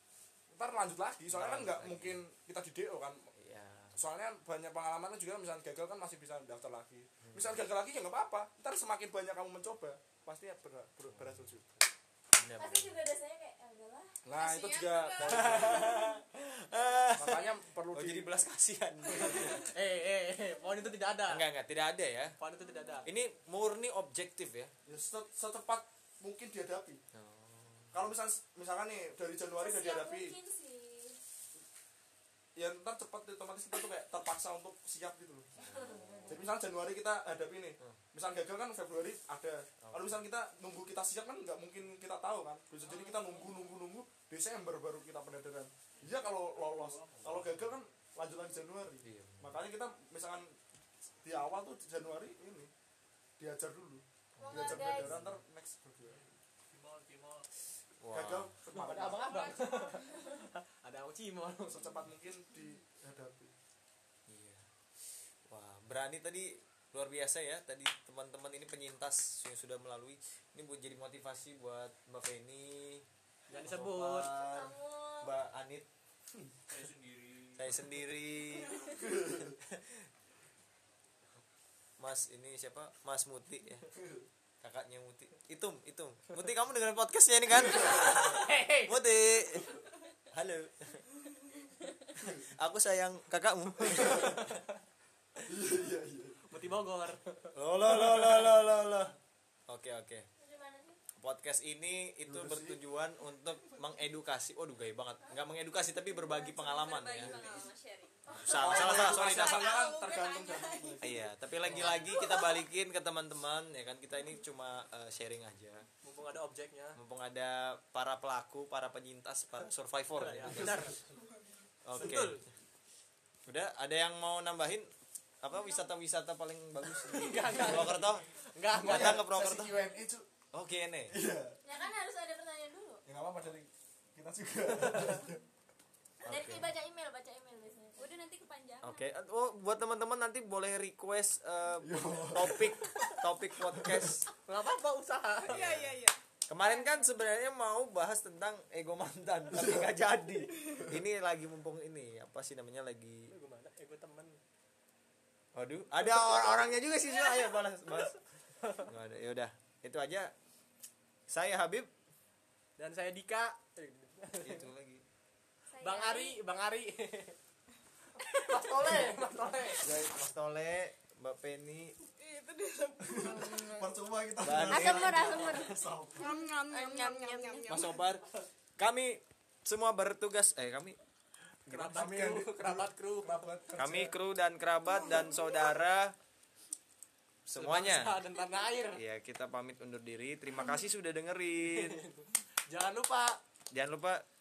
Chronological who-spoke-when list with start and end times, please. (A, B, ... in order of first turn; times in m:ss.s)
0:00.5-0:03.3 A
0:01.3-0:02.2 B
0:03.4-0:04.0 B
0:03.9-0:11.8 A
0:07.2-0:07.6 B
0:11.0-0:11.6 B
0:12.4-0:13.0 B
0:12.5-0:14.2 C
0:14.2-0:16.0 A
0:14.3-0:16.1 D
0:15.2-0:19.7 B
0:17.2-0:18.3 A
0:19.2-0:19.4 A
0:19.5-0:21.5 E
0:21.3-0:22.3 B
0:22.4-0:23.1 E
0:23.0-0:24.7 B
0:24.8-0:27.0 A
0:27.1-0:28.1 B
0:27.9-0:30.4 A
0:29.5-0:31.2 C
0:32.6-0:35.5 A
0:35.6-0:36.5 C
0:35.6-0:36.5 B
0:36.3-0:50.6 A
0:39.8-0:40.2 B
0:47.2-0:47.7 B
0:49.0-0:49.6 B
0:51.2-0:52.7 A
0:53.4-0:56.3 A
0:54.4-0:55.4 B
0:54.4-0:55.2 C
0:56.7-0:57.4 E
0:58.0-0:58.5 B
0:58.1-0:59.5 A
0:58.7-1:01.9 E
0:59.1-1:00.4 D
1:01.6-1:03.5 A
1:04.3-1:04.7 B
1:05.4-1:15.9 B
1:13.5-1:14.4 E
1:14.4-1:15.3 C
1:16.8-1:17.5 E
1:17.5-1:20.1 B
1:19.0-1:19.6 A
1:22.0-1:23.9 B
1:24.0-1:24.2 A
1:24.6-1:31.1 B
1:27.7-1:29.0 E
1:32.2-1:34.6 B
1:33.9-1:34.5 A
1:35.4-1:36.4 A
1:36.4-1:37.5 E
1:37.5-1:39.2 B
1:39.7-1:40.2 B
1:40.4-1:41.0 C
1:41.2-1:47.5 B
1:42.3-1:42.8 A
1:46.1-1:47.0 D
1:46.7-1:48.2 F
1:47.2-1:47.6 A
1:48.3-1:51.1 C
1:48.3-1:49.7 B
1:48.3-1:52.1 A
1:50.1-1:51.0 D
1:51.0-1:55.9 B
1:51.8-1:52.6 C
1:56.0-1:57.0 E
1:56.9-2:01.0 B
2:00.2-2:01.2 E
2:01.8-2:02.5 B
2:01.9-2:02.4 E
2:03.5-2:04.9 B
2:05.4-2:08.2 B
2:07.0-2:09.9 E
2:08.7-2:10.3 A
2:08.8-2:09.7 B
2:10.5-2:11.2 B
2:11.1-2:11.6 A
2:11.6-2:13.0 C
2:13.1-2:15.4 A
2:16.2-2:16.8 B
2:16.3-2:18.1 C
2:18.0-2:19.1 F
2:18.8-2:24.3 B
2:21.8-2:24.1 A
2:24.4-2:25.6 E
2:25.4-2:26.2 D
2:25.4-2:33.3 B
2:29.5-2:29.9 A
2:30.6-2:31.0 A
2:33.3-2:34.4 E
2:35.5-2:38.2 B
2:38.6-2:38.9 E
2:38.7-2:40.3 B
2:41.3-2:41.9 B
2:42.8-2:44.7 E
2:44.4-2:45.0 B
2:45.7-2:46.4 F
2:45.8-2:47.4 E
2:48.2-2:49.9 E
2:49.8-2:50.2 A
2:49.9-2:51.9 B
2:52.2-2:53.6 D
2:53.0-2:56.3 A
2:54.4-2:56.1 B
2:54.7-2:57.8 C
2:55.3-2:55.6 F
2:56.2-2:58.0 D
2:57.7-2:58.2 B
2:58.8-3:01.0 B
3:01.7-3:02.0 B
3:01.7-3:03.5 E
3:01.9-3:04.2 A
3:03.8-3:06.1 B
3:05.1-3:05.4 D
3:07.4-3:08.2 B
3:07.5-3:09.0 E
3:08.9-3:12.0 B
3:11.7-3:13.4 E
3:13.7-3:14.2 B